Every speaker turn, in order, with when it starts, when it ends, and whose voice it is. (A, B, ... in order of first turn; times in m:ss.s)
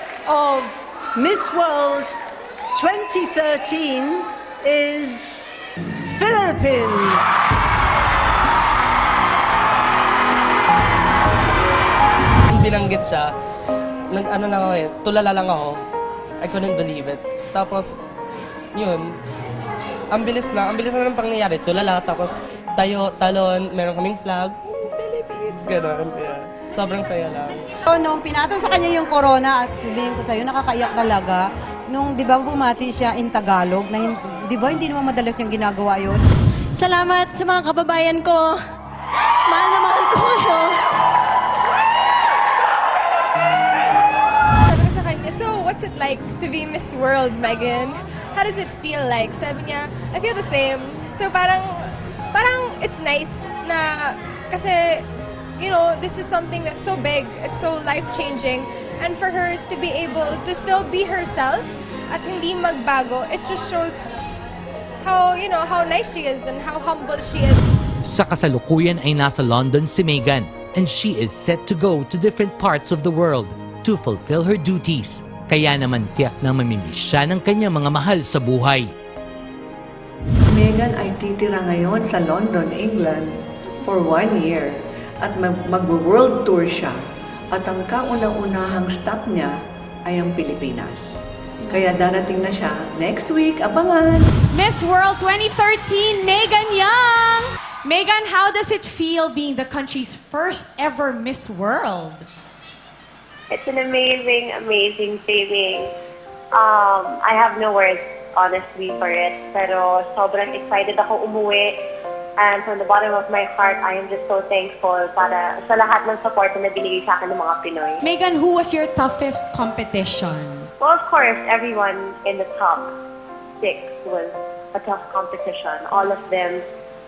0:00.2-0:02.2 A
0:02.7-0:07.2 A
0:12.5-0:13.3 B
0:14.1-0:15.8 B
0:16.4-0:18.0 B
0:18.7-0:19.1 B
0:20.1-0:27.6 B
0:27.9-0:36.2 C
0:36.7-0:38.6 D
0:39.5-0:40.8 D
0:44.7-0:51.6 E
0:47.3-0:47.8 F
0:52.3-0:55.0 E
0:55.6-1:03.6 E
1:05.1-1:07.1 E
1:06.1-1:06.4 F
1:07.1-1:07.5 F
1:08.0-1:18.9 G
1:20.5-1:27.0 H
1:27.5-1:29.5 H
1:30.0-1:34.3 H
1:34.5-1:42.2 F
1:43.5-1:45.9 I
1:46.5-1:51.8 I
1:52.4-1:58.0 I
1:58.0-2:00.7 F
2:00.8-2:02.9 I
2:03.6-2:06.6 I